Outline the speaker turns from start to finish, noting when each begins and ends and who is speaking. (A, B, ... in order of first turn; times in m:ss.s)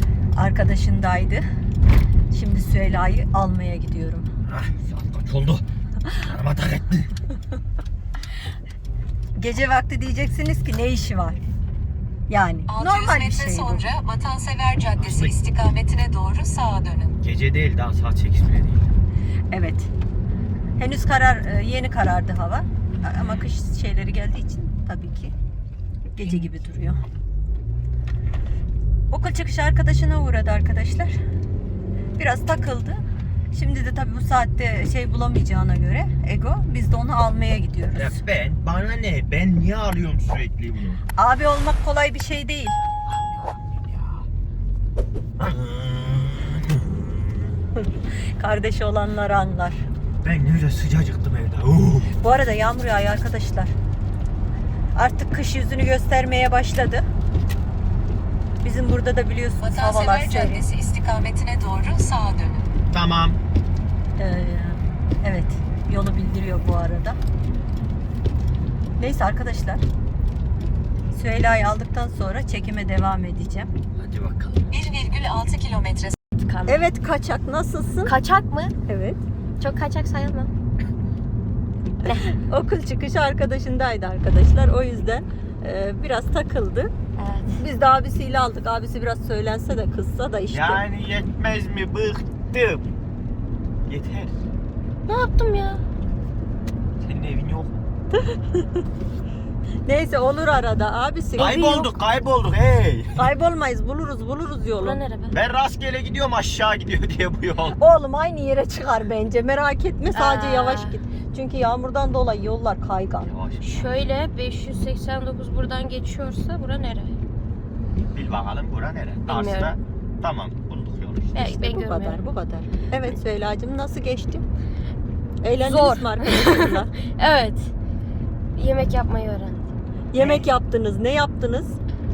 0:00.3-0:01.4 A
0:02.3-0:04.3 A
0:04.5-0:05.6 B
0:06.2-0:07.1 B
0:09.4-0:11.4 A
0:12.3-0:13.9 A
0:12.7-0:17.2 C
0:15.0-0:15.4 B
0:17.2-0:18.9 B
0:19.5-0:19.9 A
0:20.8-0:25.3 A
0:26.1-0:27.0 A
0:29.1-0:31.2 A
0:32.2-0:33.0 A
0:33.5-0:38.2 A
0:38.0-0:41.0 B
0:41.2-0:42.8 A
0:45.4-0:47.1 B
0:47.8-0:49.8 A
0:50.2-0:52.1 B
0:52.2-0:53.7 A
0:55.0-0:57.0 A
0:58.6-1:00.6 A
0:59.6-1:02.7 C
1:02.9-1:03.4 B
1:04.2-1:07.2 A
1:09.0-1:09.8 A
1:11.1-1:13.7 A
1:14.0-1:14.7 B
1:14.7-1:16.2 C
1:16.4-1:16.8 D
1:16.7-1:18.2 A
1:18.1-1:18.8 D
1:18.9-1:19.2 A
1:19.6-1:20.5 D
1:22.0-1:22.3 D
1:22.0-1:26.9 A
1:27.2-1:27.6 D
1:27.5-1:30.8 A
1:30.5-1:32.9 B
1:33.9-1:34.4 B
1:35.1-1:35.8 D
1:37.0-1:37.7 B
1:38.2-1:38.7 A
1:39.8-1:42.0 A
1:41.4-1:43.2 B
1:43.2-1:45.0 A
1:44.8-1:45.4 D
1:45.3-1:47.8 B
1:47.8-1:53.4 A
1:50.1-1:51.0 D
1:53.2-1:53.9 B
1:53.6-1:57.2 D
1:58.1-2:01.5 B
1:59.3-1:59.8 D
2:01.3-2:02.2 D
2:01.4-2:04.4 A
2:05.4-2:06.9 A
2:05.6-2:07.7 D
2:08.6-2:09.7 D
2:10.1-2:11.8 A